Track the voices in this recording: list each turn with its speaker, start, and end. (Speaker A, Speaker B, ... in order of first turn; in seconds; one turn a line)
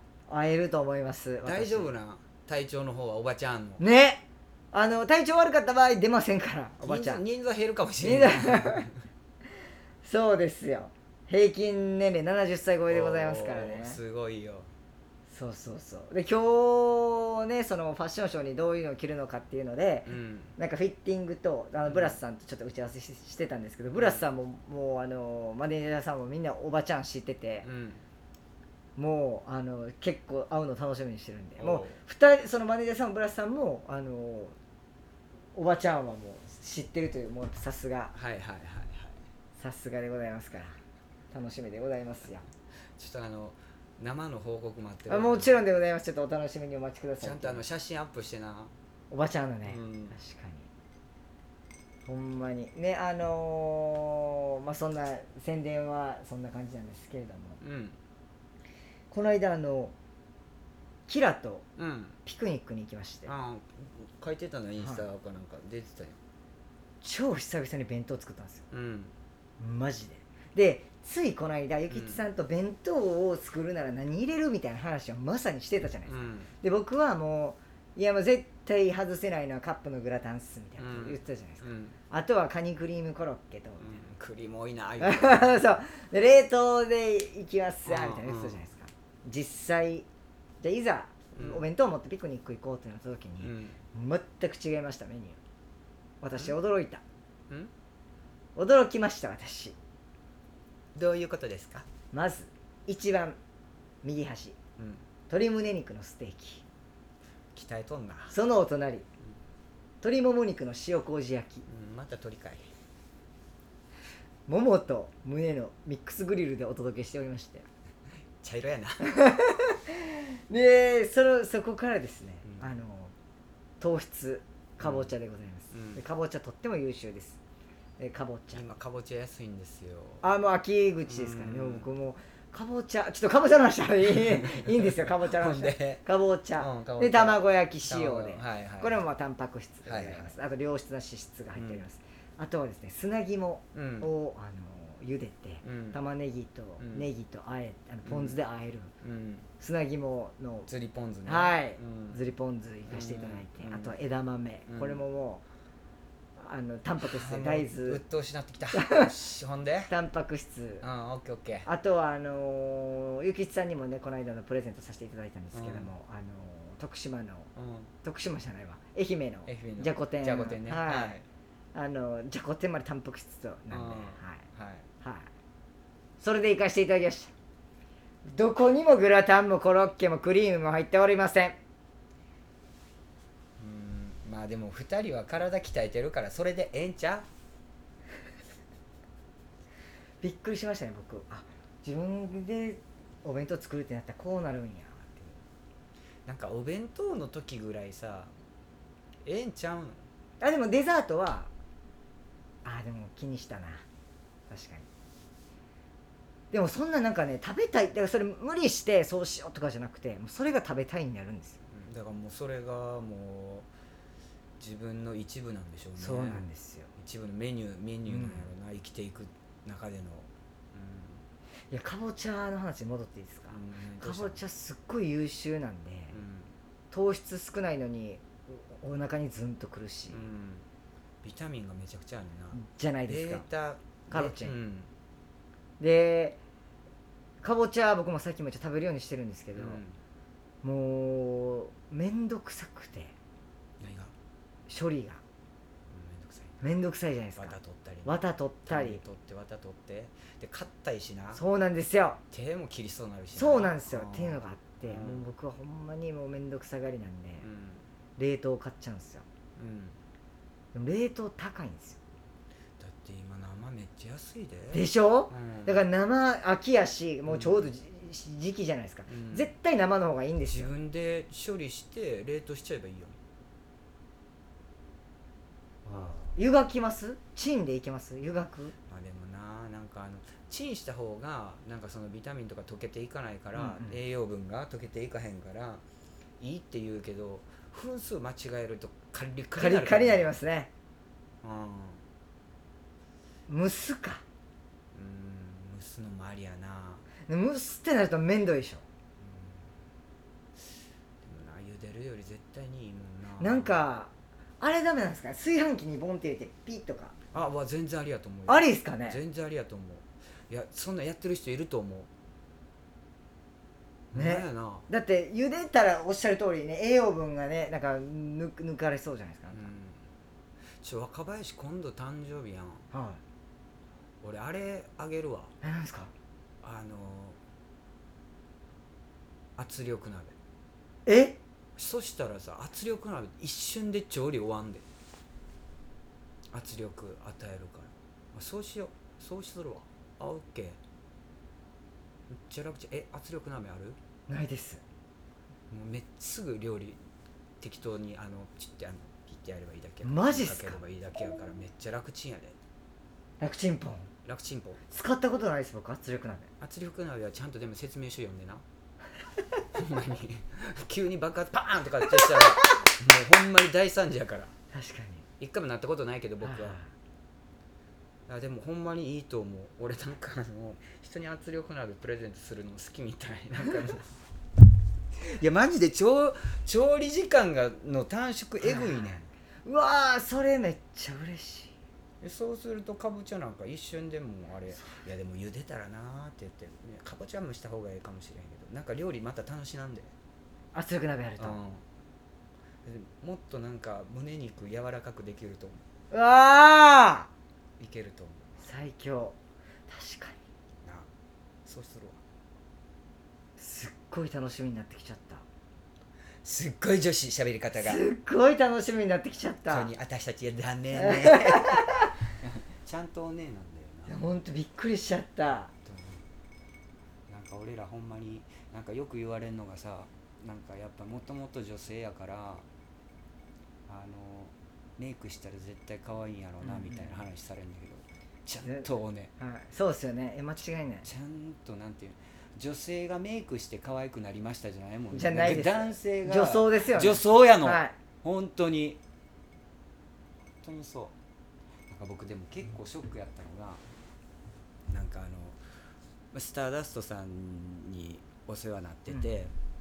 Speaker A: 0.3-1.9
Speaker B: 1.4-3.8
Speaker A: 3.8-7.2
Speaker B: 6.8-9.0
Speaker A: 8.0-8.9
Speaker A: 10.0-14.0
Speaker B: 12.9-14.7
Speaker A: 15.3-27.7
Speaker B: 20.1-20.6
Speaker B: 21.9-22.2
Speaker B: 24.0-24.2
Speaker B: 27.6-28.0
Speaker A: 29.0-34.6
Speaker B: 31.6-32.0
Speaker A: 35.5-38.1
Speaker B: 38.1-39.2
Speaker A: 39.6-40.8
Speaker A: 41.3-42.5
Speaker B: 43.0-45.6
Speaker A: 45.1-47.6
Speaker B: 47.2-48.7
Speaker A: 49.1-50.7
Speaker B: 49.7-50.2
Speaker A: 52.0-57.6
Speaker B: 57.6-58.0
Speaker A: 59.1-59.9
Speaker A: 61.1-61.7
Speaker B: 61.8-62.2
Speaker A: 62.2-63.3
Speaker B: 63.3-66.2
Speaker A: 64.8-65.0
Speaker A: 67.0-68.7
Speaker B: 68.7-69.1
Speaker A: 69.6-84.0
Speaker B: 71.9-72.2
Speaker B: 76.1-76.5
Speaker B: 80.8-82.0
Speaker B: 83.8-85.7
Speaker A: 85.0-90.1
Speaker B: 87.9-88.6
Speaker A: 90.6-95.4
Speaker B: 91.3-91.6
Speaker B: 93.4-93.8
Speaker A: 96.2-97.0
Speaker A: 98.6-99.8
Speaker B: 101.0-101.9
Speaker A: 102.1-103.4
Speaker A: 104.0-104.5
Speaker B: 104.8-105.0
Speaker A: 105.3-106.6
Speaker B: 107.5-108.3
Speaker A: 108.3-109.1
Speaker A: 110.0-111.6
Speaker B: 111.7-112.7
Speaker A: 114.5-117.7
Speaker B: 118.4-119.1
Speaker A: 119.1-123.1
Speaker A: 123.8-127.4
Speaker B: 124.8-125.1
Speaker B: 125.7-126.0
Speaker A: 128.0-128.7
Speaker B: 128.5-130.2
Speaker A: 130.2-148.9
Speaker B: 131.1-131.9
Speaker B: 134.0-136.1
Speaker B: 136.6-139.0
Speaker B: 139.8-140.3
Speaker B: 141.6-141.8
Speaker B: 143.7-144.1
Speaker B: 145.6-146.0
Speaker B: 146.8-147.1
Speaker B: 148.1-148.4
Speaker B: 149.0-149.5
Speaker A: 149.6-150.7
Speaker B: 150.7-152.2
Speaker A: 151.2-155.4
Speaker B: 152.9-154.0
Speaker B: 154.7-155.0
Speaker A: 156.4-158.0
Speaker B: 157.0-159.9
Speaker A: 158.7-159.1
Speaker A: 159.9-160.9
Speaker B: 160.8-161.7
Speaker A: 161.7-167.5
Speaker B: 165.5-165.9
Speaker B: 167.6-167.9
Speaker A: 168.0-171.2
Speaker B: 169.5-171.3
Speaker A: 171.8-174.4
Speaker B: 173.7-174.9
Speaker A: 175.0-175.3
Speaker A: 176.2-177.3
Speaker A: 178.2-181.6
Speaker B: 183.6-187.3
Speaker A: 190.2-195.4
Speaker B: 196.3-198.3
Speaker B: 199.2-200.1
Speaker A: 200.4-201.5
Speaker A: 202.7-203.8
Speaker A: 204.5-204.9
Speaker A: 206.5-211.6
Speaker B: 211.7-213.7
Speaker B: 214.6-216.4
Speaker A: 216.0-216.9
Speaker B: 217.0-221.2
Speaker A: 218.1-218.5
Speaker A: 221.7-226.2
Speaker B: 223.5-224.4
Speaker B: 226.1-226.5
Speaker A: 226.9-230.2
Speaker B: 230.1-230.7
Speaker B: 231.2-234.9
Speaker A: 232.5-233.5
Speaker A: 234.1-234.6
Speaker A: 235.8-236.4
Speaker A: 237.4-239.8
Speaker B: 239.6-240.0
Speaker A: 240.6-243.1
Speaker B: 243.8-244.1
Speaker A: 244.7-245.2
Speaker B: 245.9-246.6
Speaker A: 246.6-249.0
Speaker B: 247.4-251.4
Speaker A: 251.3-252.2
Speaker B: 252.3-255.2
Speaker A: 253.4-257.5
Speaker B: 257.4-257.9
Speaker A: 258.2-259.2
Speaker B: 259.6-260.0
Speaker A: 260.7-262.0
Speaker B: 262.8-265.9
Speaker A: 264.7-270.7
Speaker B: 267.2-267.7
Speaker B: 269.1-269.5
Speaker B: 270.5-273.2
Speaker A: 275.9-278.7
Speaker B: 278.9-285.8
Speaker A: 283.6-284.0
Speaker B: 286.4-290.3
Speaker A: 289.6-290.7
Speaker B: 291.4-292.0
Speaker A: 293.5-294.2
Speaker B: 294.9-297.1
Speaker A: 297.3-298.8
Speaker B: 299.2-299.7
Speaker B: 301.2-303.8
Speaker A: 303.4-307.2
Speaker B: 307.3-312.1
Speaker A: 308.5-309.2
Speaker B: 314.1-314.9
Speaker A: 314.1-319.7
Speaker B: 319.5-320.1
Speaker B: 320.8-322.9
Speaker A: 322.9-323.2
Speaker B: 324.2-325.5
Speaker A: 325.6-326.1
Speaker B: 326.6-327.4
Speaker B: 329.6-330.4
Speaker A: 331.1-331.4
Speaker B: 331.8-334.9
Speaker B: 336.5-340.8
Speaker B: 342.3-344.0
Speaker A: 344.3-344.8
Speaker B: 345.7-347.0
Speaker B: 347.6-352.6
Speaker A: 350.0-350.8
Speaker A: 353.4-354.1
Speaker B: 354.2-354.8
Speaker A: 354.9-356.5
Speaker B: 356.6-358.6
Speaker B: 359.7-364.5
Speaker A: 364.7-365.2
Speaker B: 365.4-366.8
Speaker A: 366.4-366.9
Speaker B: 368.3-374.2
Speaker B: 375.2-379.3
Speaker A: 378.6-381.8
Speaker B: 382.2-390.1
Speaker A: 390.7-391.6
Speaker B: 391.4-391.8
Speaker B: 392.9-395.8
Speaker A: 396.1-397.3
Speaker B: 397.8-398.4
Speaker A: 398.6-399.4
Speaker A: 399.9-400.4
Speaker B: 401.6-402.2
Speaker A: 403.6-405.4
Speaker B: 406.4-408.0
Speaker A: 407.8-409.9
Speaker B: 409.7-414.2
Speaker A: 410.9-412.1
Speaker A: 414.1-415.7
Speaker B: 415.9-416.2
Speaker B: 417.3-422.7
Speaker B: 423.9-429.3
Speaker A: 426.6-427.2
Speaker A: 429.4-431.1
Speaker B: 431.0-439.0
Speaker A: 435.1-437.9
Speaker B: 440.6-441.1
Speaker B: 441.9-443.8
Speaker B: 444.9-445.6
Speaker B: 446.3-449.5